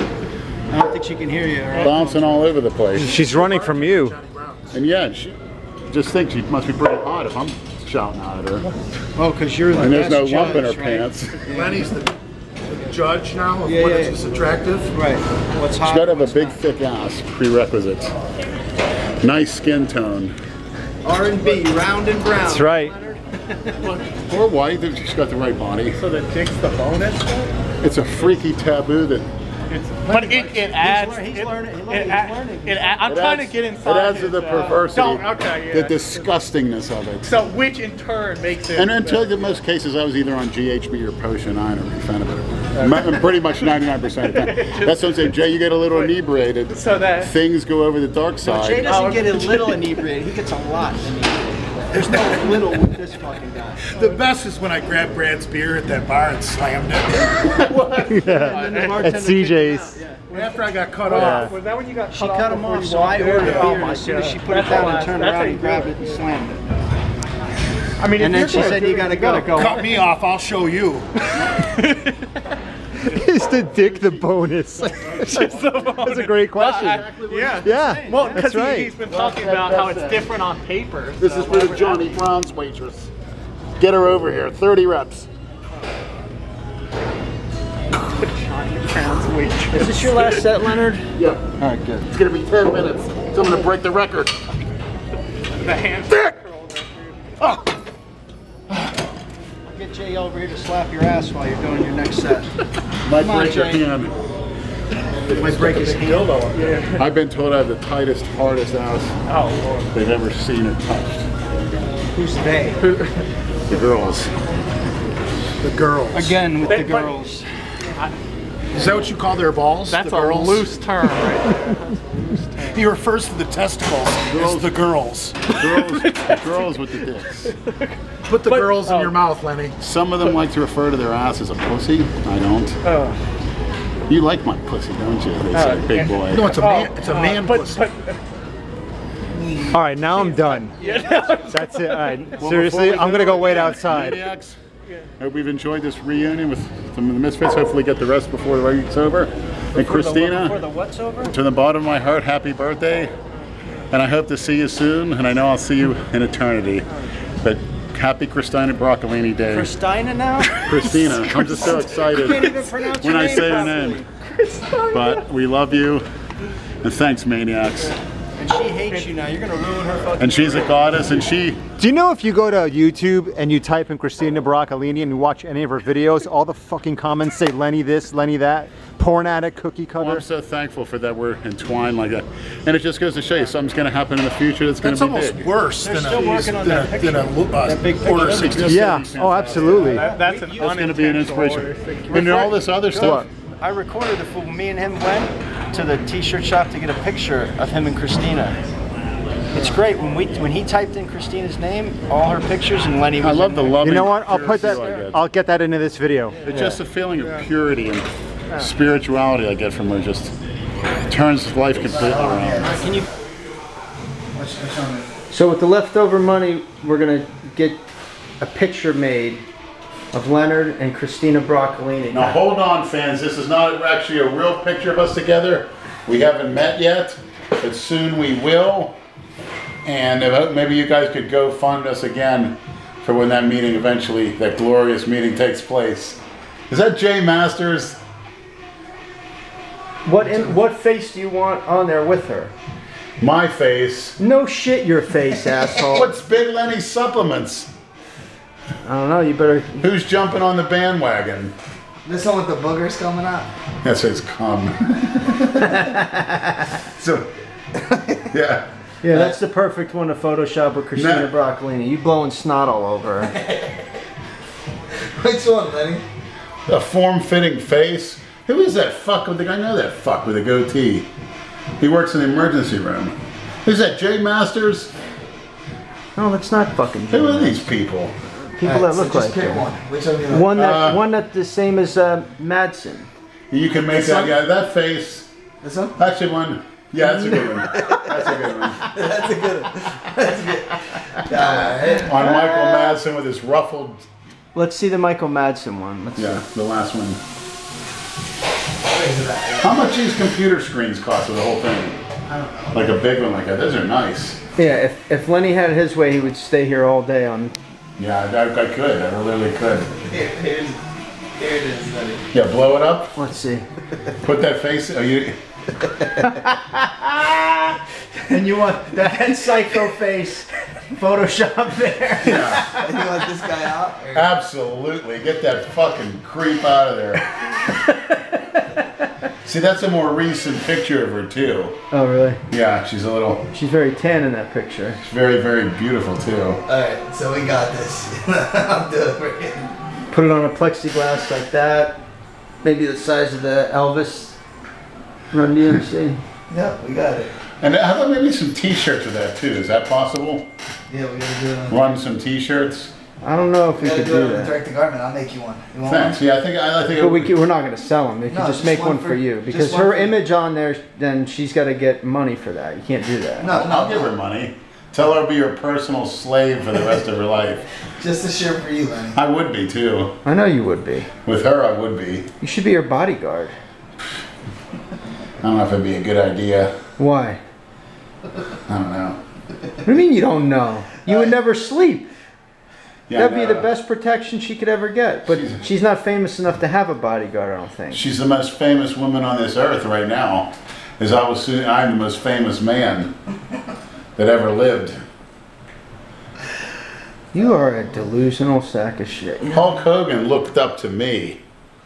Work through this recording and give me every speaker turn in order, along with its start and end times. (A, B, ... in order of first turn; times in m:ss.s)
0:00.7-0:02.5 A
0:01.7-0:03.1 B
0:02.9-0:04.2 C
0:02.9-0:04.8 D
0:04.7-0:05.4 B
0:05.9-0:08.7 B
0:09.2-0:11.9 A
0:09.7-0:11.5 B
0:11.5-0:12.1 D
0:12.7-0:14.9 D
0:13.6-0:14.2 A
0:14.9-0:16.6 A
0:15.8-0:18.1 B
0:19.2-0:20.4 B
0:21.0-0:23.8 A
0:22.4-0:22.9 C
0:24.2-0:26.0 B
0:26.0-0:27.5 E
0:27.8-0:29.3 B
0:29.7-0:36.2 E
0:30.1-0:33.1 A
0:33.1-0:37.4 B
0:37.2-0:39.6 E
0:38.8-0:49.0 B
0:42.8-0:43.4 E
0:44.3-0:45.3 E
0:46.7-0:47.3 E
0:48.4-0:53.8 A
0:48.8-0:49.9 E
0:53.9-0:57.8 D
0:57.6-0:58.4 B
0:58.1-1:00.0 C
0:58.2-1:00.2 A
0:58.4-0:59.1 E
1:00.1-1:06.2 E
1:00.3-1:01.6 D
1:01.1-1:01.5 C
1:02.1-1:06.6 A
1:08.0-1:09.8 E
1:08.2-1:09.9 A
1:09.5-1:11.1 D
1:11.4-1:12.2 E
1:13.0-1:19.0 C
1:13.8-1:14.0 B
1:15.2-1:22.2 E
1:16.6-1:18.4 A
1:19.0-1:20.3 B
1:21.2-1:23.1 B
1:23.8-1:25.3 B
1:28.2-1:30.5 E
1:29.7-1:32.1 A
1:32.1-1:34.4 B
1:35.6-1:37.3 E
1:39.7-1:42.6 A
1:43.0-1:44.1 B
1:43.1-1:43.9 A
1:45.3-1:46.6 A
1:45.4-1:46.2 B
1:45.7-1:47.0 E
1:46.9-1:49.2 B
1:49.3-1:49.9 E
1:49.9-1:51.3 B
1:52.2-1:52.8 A
1:52.8-1:53.3 E
1:53.7-1:54.3 B
1:55.6-1:56.4 D
1:56.1-1:57.5 A
1:56.7-1:57.2 E
1:58.7-2:00.8 D
1:59.9-2:02.8 E
2:02.6-2:05.5 D
2:04.3-2:04.8 B
2:05.5-2:07.6 B
2:05.6-2:06.7 E
2:07.4-2:09.2 E
2:08.3-2:09.8 D
2:09.8-2:12.8 B
2:12.8-2:13.2 E
2:14.1-2:16.8 B
2:15.5-2:18.2 E
2:16.3-2:17.9 D
2:19.7-2:20.8 C
2:20.2-2:23.8 E
2:20.8-2:21.6 A
2:21.5-2:24.2 C
2:22.4-2:24.6 B
2:25.2-2:30.6 B
2:29.7-2:31.4 A
2:31.3-2:33.1 B
2:33.9-2:36.9 B
2:37.4-2:39.7 B
2:39.5-2:41.0 A
2:40.6-2:44.0 B
2:41.9-2:44.1 A
2:44.2-2:45.2 E
2:44.9-2:46.1 B
2:46.8-2:48.0 B
2:48.4-2:51.0 A
2:50.2-2:51.6 B
2:51.8-3:00.2 C
3:00.0-3:05.5 B
3:04.8-3:09.0 D
3:05.8-3:08.7 A
3:08.0-3:13.3 B
3:08.6-3:10.1 C
3:09.7-3:12.5 E
3:09.7-3:10.8 A
3:12.1-3:18.6 A
3:13.0-3:13.3 C
3:19.5-3:24.0 A
3:23.2-3:25.2 B
3:23.8-3:26.5 C
3:26.4-3:26.7 E
3:26.5-3:30.3 B
3:26.5-3:26.8 A
3:31.1-3:32.7 B
3:31.9-3:33.0 F
3:32.6-3:33.1 A
3:34.4-3:35.1 F
3:35.3-3:37.8 A
3:38.4-3:39.4 A
3:40.1-3:42.4 A
3:42.1-3:49.0 B
3:49.8-3:58.0 B
4:00.0-4:02.5 A
4:03.2-4:04.2 B
4:04.2-4:06.1 A
4:05.9-4:07.7 B
4:08.8-4:09.9 A
4:09.8-4:11.6 B
4:12.0-4:13.5 F
4:13.8-4:15.9 B
4:15.6-4:16.7 A
4:17.0-4:17.3 B
4:17.7-4:18.2 F
4:18.3-4:18.7 B
4:19.0-4:23.4 A
4:19.1-4:19.4 F
4:21.0-4:21.3 B
4:23.4-4:23.7 F
4:25.2-4:26.0 F
4:26.7-4:31.1 B
4:31.8-4:34.9 B
4:36.2-4:37.7 A
4:37.1-4:38.2 B
4:38.6-4:39.7 A
4:38.6-4:40.5 F
4:40.3-4:43.1 A
4:40.6-4:41.0 B
4:43.5-4:45.3 B
4:43.9-4:44.3 F
4:45.6-4:46.0 F
4:46.0-4:48.9 B
4:47.0-4:48.1 A
4:48.9-4:52.1 F
4:52.0-4:54.1 B
4:52.2-4:53.0 A
4:54.5-4:56.4 A
4:56.2-4:57.2 B
4:58.8-4:59.8 F
4:59.6-5:02.0 B
5:02.3-5:03.0 F
5:02.7-5:04.4 B
5:04.6-5:07.6 A
5:08.0-5:09.9 B
5:09.9-5:12.2 F
5:12.3-5:13.2 B
5:13.2-5:13.7 A
5:14.2-5:15.4 B
5:16.2-5:17.8 A
5:18.3-5:22.9 A
5:22.2-5:22.7 B
5:22.4-5:24.3 F
5:24.1-5:27.3 B
5:29.4-5:31.8 B
5:31.9-5:32.4 A
5:32.5-5:33.5 B
5:33.5-5:35.0 A
5:35.0-5:36.6 B
5:36.7-5:39.8 F
5:40.1-5:42.0 A
5:42.6-5:44.4 A
5:45.3-5:46.2 A
5:46.5-5:47.3 F
5:47.6-5:50.5 B
5:50.9-5:51.9 F
5:51.7-5:52.9 B
5:53.2-5:54.6 A
5:53.8-5:56.2 F
5:55.9-5:57.3 B
5:57.0-6:03.5 A
5:58.3-6:00.2 F
6:03.4-6:04.1 F
6:03.5-6:07.7 B
6:08.0-6:09.2 F
6:09.1-6:10.2 B
6:10.2-6:11.1 A
6:11.2-6:12.3 B
6:12.4-6:13.6 A
6:15.4-6:16.8 B
6:17.0-6:17.4 A
6:18.7-6:19.2 B
6:19.8-6:22.1 A
6:23.1-6:23.7 B
6:23.2-6:28.0 A
6:25.3-6:25.6 B
6:27.9-6:33.2 B
6:34.2-6:35.0 B
6:37.3-6:39.6 A
6:39.5-6:41.4 B